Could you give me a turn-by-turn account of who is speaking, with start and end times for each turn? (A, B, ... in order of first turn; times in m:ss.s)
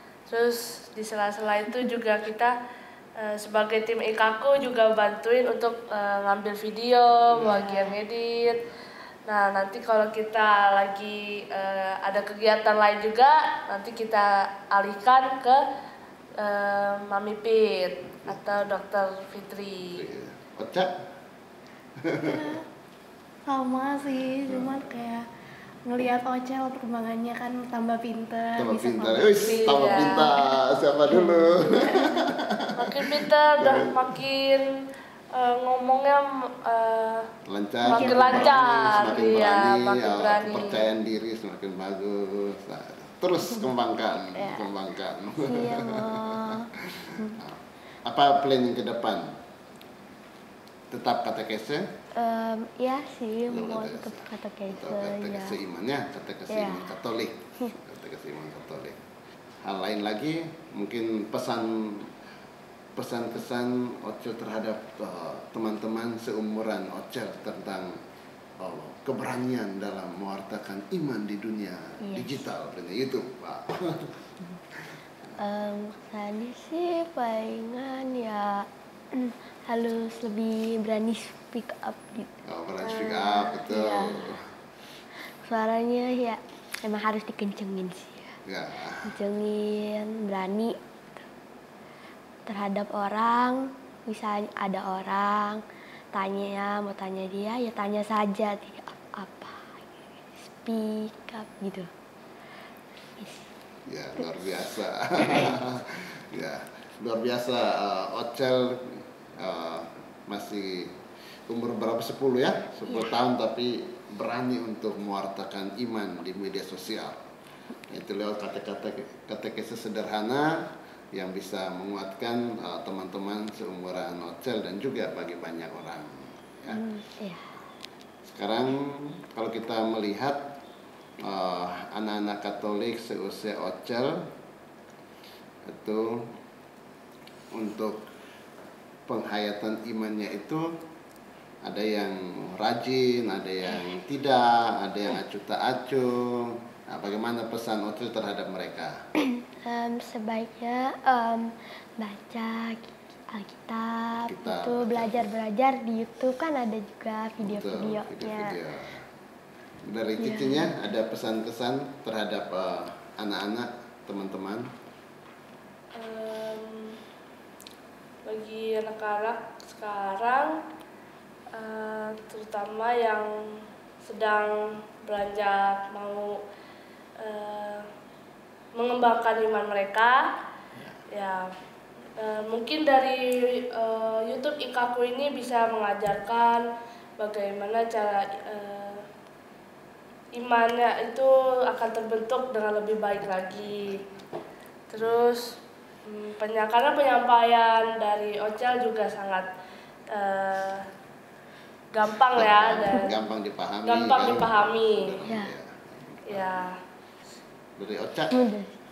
0:00.3-0:02.5 A
0:03.2-0:08.7 A
0:07.3-0:07.7 B
0:07.5-0:07.9 C
0:09.2-0:15.6 A
0:16.4-0:20.1 A
0:19.8-0:21.0 B
0:22.0-0:22.6 B
0:22.2-0:22.6 C
0:23.4-0:25.2 C
0:25.8-0:29.9 C
0:28.6-0:34.1 B
0:29.4-0:30.4 A
0:31.3-0:32.1 C
0:31.6-0:31.9 A
0:32.8-0:34.7 A
0:35.3-0:37.3 A
0:37.4-0:49.3 B
0:37.8-0:40.9 A
0:37.9-0:38.5 C
0:44.3-0:44.7 D
0:45.4-0:47.4 D
0:50.9-0:51.8 B
0:52.2-0:55.6 D
0:53.5-0:59.0 B
0:56.5-0:56.9 D
0:59.6-1:02.1 B
1:03.0-1:08.0 B
1:08.6-1:14.4 B
1:12.0-1:12.4 D
1:15.4-1:24.2 D
1:22.4-1:24.5 B
1:25.3-1:28.3 D
1:28.4-1:29.1 B
1:29.0-1:31.2 D
1:32.4-1:35.6 D
1:36.1-1:41.9 D
1:43.2-1:43.5 D
1:43.8-1:51.0 B
1:51.5-1:57.2 B
1:52.9-1:53.1 D
1:57.9-2:06.8 B
2:06.7-2:07.5 D
2:08.2-2:10.5 B
2:11.2-2:14.2 B
2:15.7-2:16.3 B
2:17.5-2:18.0 B
2:19.1-2:20.7 B
2:21.6-2:29.0 B
2:29.6-2:38.6 D
2:34.3-2:35.2 B
2:37.4-2:39.0 B
2:39.8-2:44.7 B
2:40.2-2:40.8 D
2:45.9-2:47.0 A
2:48.2-2:50.6 A
2:51.5-2:56.4 A
2:57.2-2:57.8 A
2:58.7-3:00.2 A
3:01.1-3:01.4 A
3:02.2-3:06.6 A
3:07.2-3:09.0 A
3:10.3-3:14.0 A
3:13.6-3:14.2 B
3:14.9-3:15.5 A
3:16.0-3:19.5 A
3:20.1-3:20.8 A
3:21.9-3:23.2 A
3:22.3-3:26.7 B
3:23.8-3:25.2 A
3:25.2-3:25.5 D
3:26.3-3:26.7 A
3:27.8-3:28.4 B
3:28.3-3:28.8 D